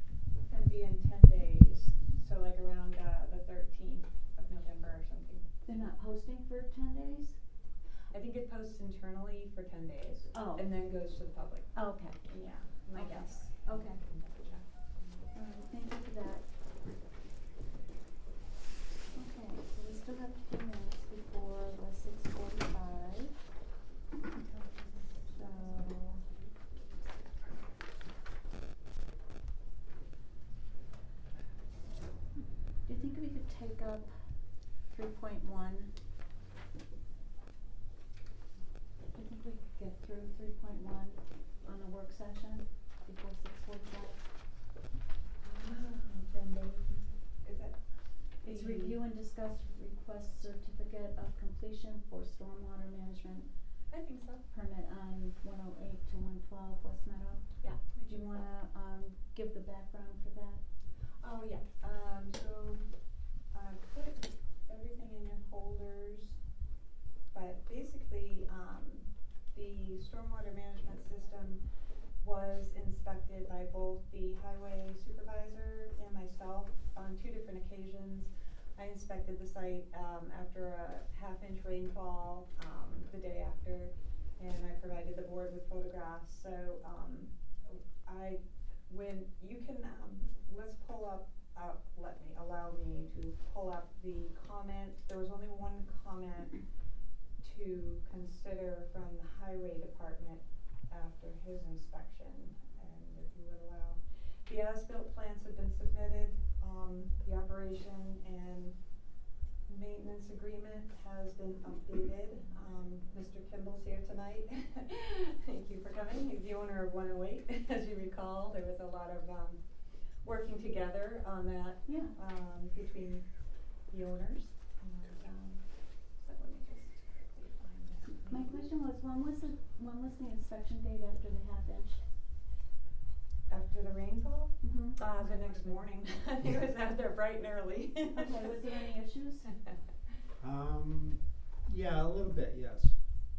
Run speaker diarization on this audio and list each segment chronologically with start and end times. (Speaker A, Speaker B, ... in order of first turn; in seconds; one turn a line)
Speaker A: 0.5-5.5
Speaker B: 5.7-7.4
Speaker A: 8.1-11.7
Speaker B: 10.3-10.7
Speaker B: 11.8-12.2
Speaker A: 12.2-14.7
Speaker B: 12.9-14.0
Speaker B: 15.3-16.5
Speaker B: 19.1-23.4
Speaker A: 24.4-26.4
Speaker B: 25.3-26.2
Speaker B: 32.9-34.1
Speaker B: 34.9-35.9
Speaker B: 39.1-44.2
Speaker A: 45.4-47.8
Speaker A: 48.4-49.0
Speaker B: 48.4-53.5
Speaker A: 53.9-54.4
Speaker B: 54.5-60.6
Speaker A: 57.6-58.5
Speaker A: 61.2-62.8
Speaker A: 63.5-66.4
Speaker A: 67.3-71.6
Speaker A: 72.2-96.6
Speaker A: 97.4-108.8
Speaker A: 109.7-119.6
Speaker A: 120.2-123.2
Speaker B: 121.9-122.2
Speaker A: 123.9-125.7
Speaker A: 126.2-128.7
Speaker B: 128.3-132.0
Speaker A: 133.5-138.9
Speaker B: 134.6-135.7
Speaker B: 138.1-139.5
Speaker C: 140.4-142.9